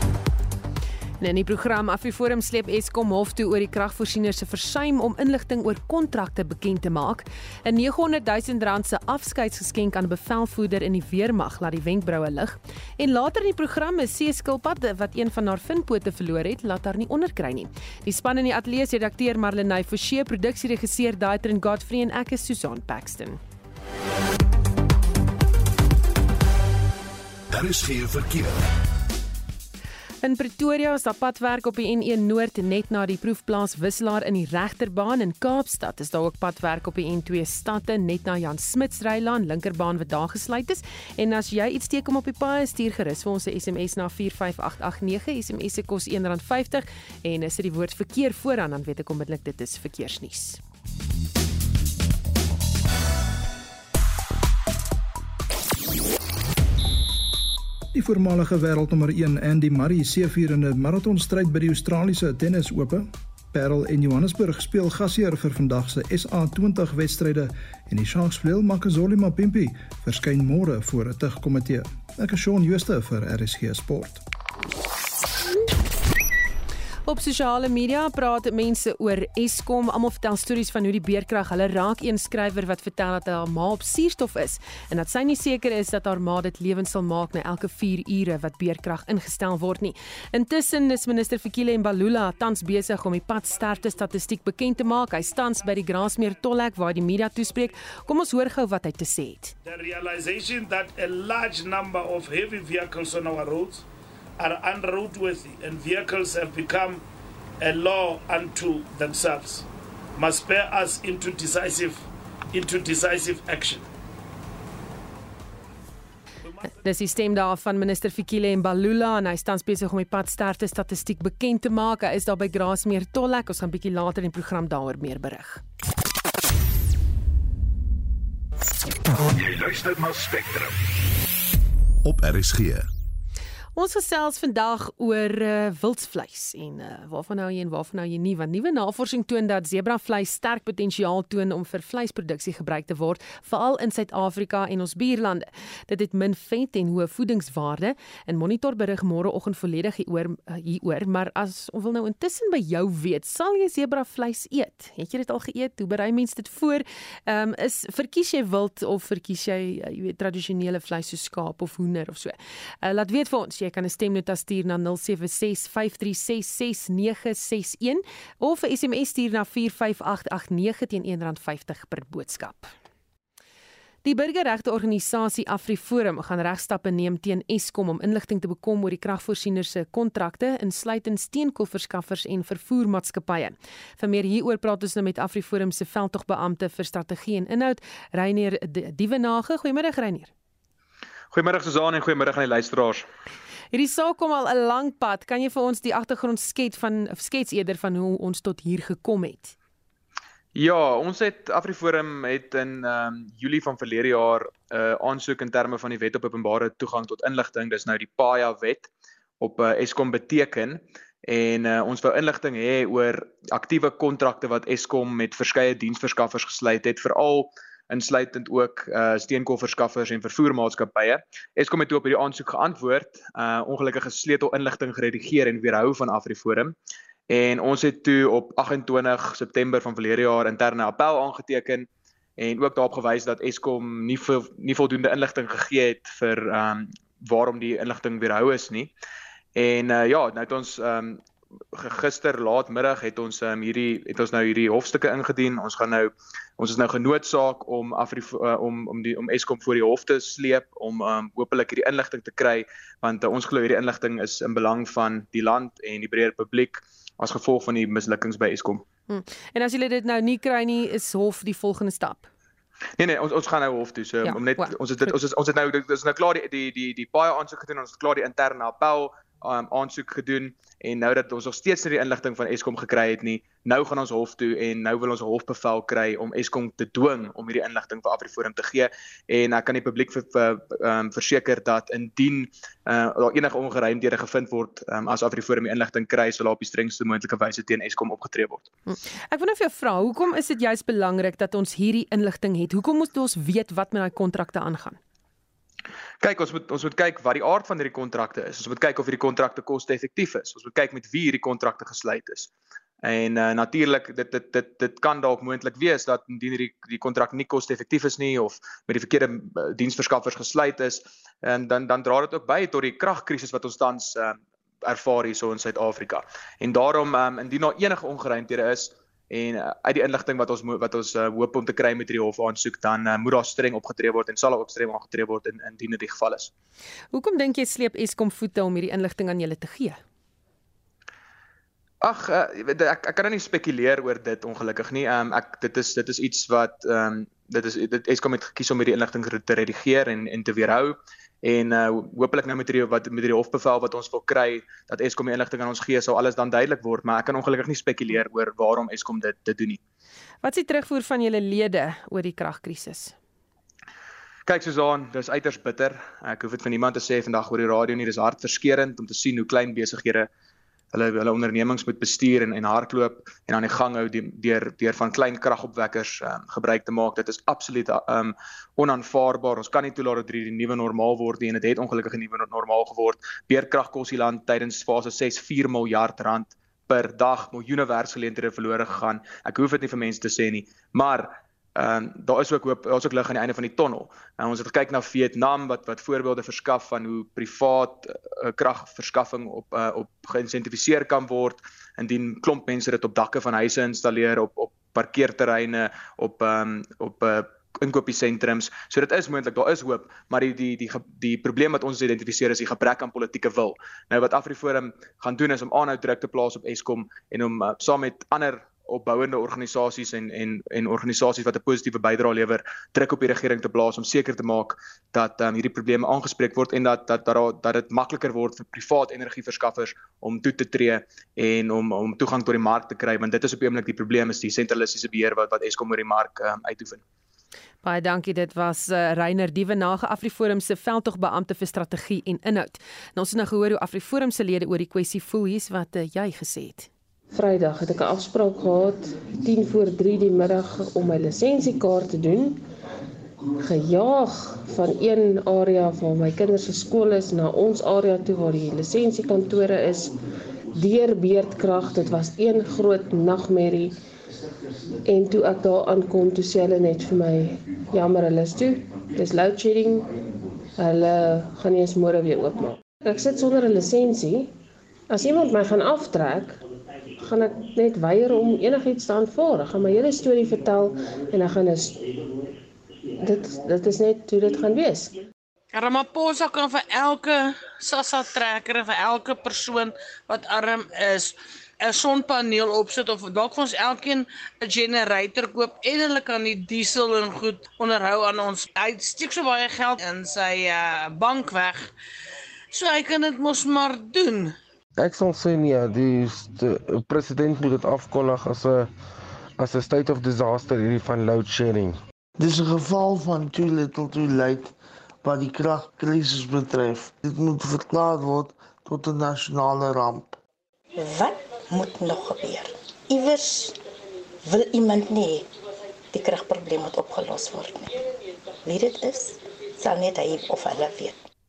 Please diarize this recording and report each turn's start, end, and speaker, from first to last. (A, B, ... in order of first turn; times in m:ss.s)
0:01.2-0:23.4 A
0:27.5-0:28.7 B
0:30.2-0:50.6 A
0:57.9-1:14.2 C
1:17.0-1:39.5 A
1:39.6-1:43.8 D
1:44.4-1:47.0 D
1:47.6-1:53.9 D
1:56.6-2:05.6 A
2:09.2-2:10.7 B
2:12.0-2:12.9 B
2:13.8-2:52.7 A
2:54.0-3:10.3 A
3:11.3-3:13.0 E
3:13.7-3:19.5 A
3:20.5-3:28.9 E
3:29.4-3:46.7 E
3:47.3-3:58.9 E
3:59.5-4:01.2 E
4:01.7-4:18.8 E
4:19.1-4:22.3 A
4:23.0-4:48.7 E
4:24.2-4:24.8 A
4:48.9-4:55.0 A
4:56.2-5:02.5 E
5:03.0-5:26.5 E
5:27.1-5:30.0 A
5:32.0-5:49.8 E
5:50.4-5:53.1 A
5:54.5-6:00.3 E
6:00.9-7:07.0 E
7:07.8-7:16.9 A
7:17.3-7:22.6 F
7:23.6-7:30.2 F
7:30.7-7:33.9 F
7:35.0-7:40.1 F
7:40.8-7:44.5 F
7:45.1-7:46.6 F
7:47.2-7:52.2 F
7:53.2-7:55.2 F
7:55.7-8:11.9 G
8:12.7-8:14.6 G
8:15.0-8:18.9 H
8:19.6-8:22.0 H
8:22.4-8:30.3 I
8:31.0-8:33.8 J
8:34.4-8:35.5 J
8:36.1-8:37.9 J
8:38.6-8:41.2 J